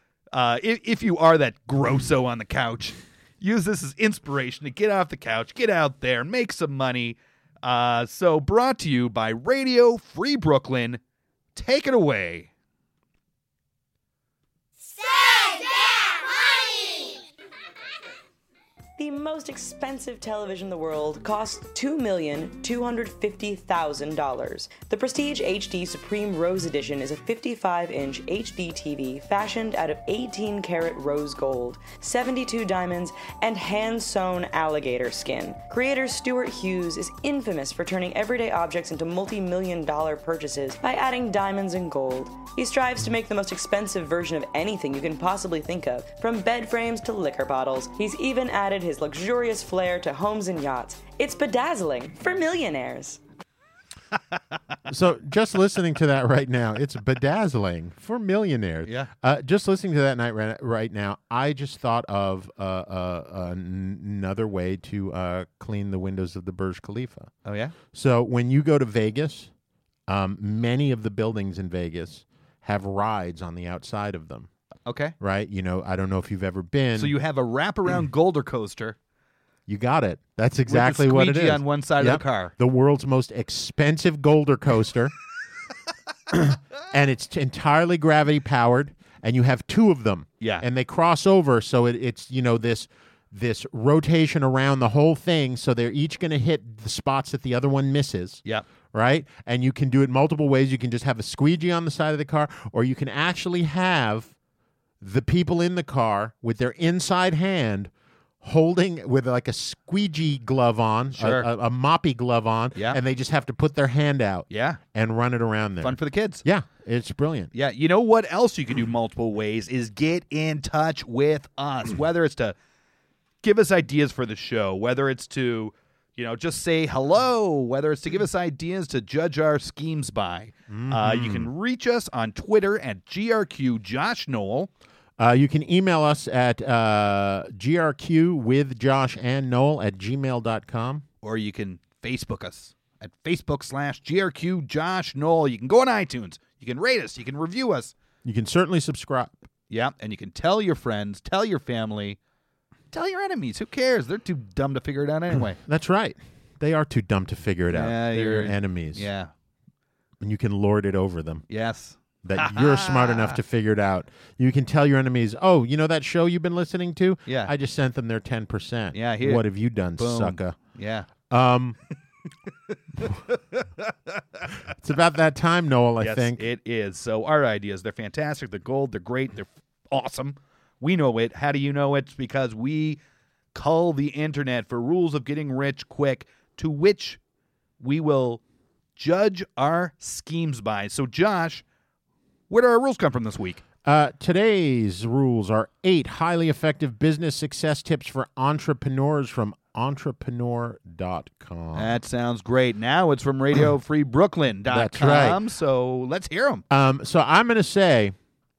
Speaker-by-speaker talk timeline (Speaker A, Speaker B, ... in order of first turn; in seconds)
Speaker A: 0.3-11.0, 11.6-12.5, 58.9-59.1, 67.5-67.8, 74.8-75.1, 77.0-79.0, 80.7-82.5, 111.2-111.5, 112.8-113.0, 114.5-114.8, 115.8-116.4, 117.5-122.5, 123.4-134.7, 141.2-147.9, 149.7-152.2, 152.9-155.6, 157.7-159.3, 161.5-163.4, 167.3-167.5, 168.9-169.4, 170.0-171.1, 173.0-174.5, 176.0-183.0, 183.5-187.2, 187.8-188.4, 189.0-191.6, 192.5-193.6, 201.7-206.7
Speaker B: 19.0-53.2
Speaker C: 54.9-67.3, 67.9-69.5, 70.1-74.5, 75.2-77.2, 79.7-85.2, 86.3-104.3, 105.0-117.5, 130.7-131.5, 135.2-141.1, 148.2-149.4, 155.6-159.1, 160.2-161.5, 162.2-170.6, 171.3-171.8, 174.7-176.4, 193.8-202.0, 204.7-205.4, 206.7-208.2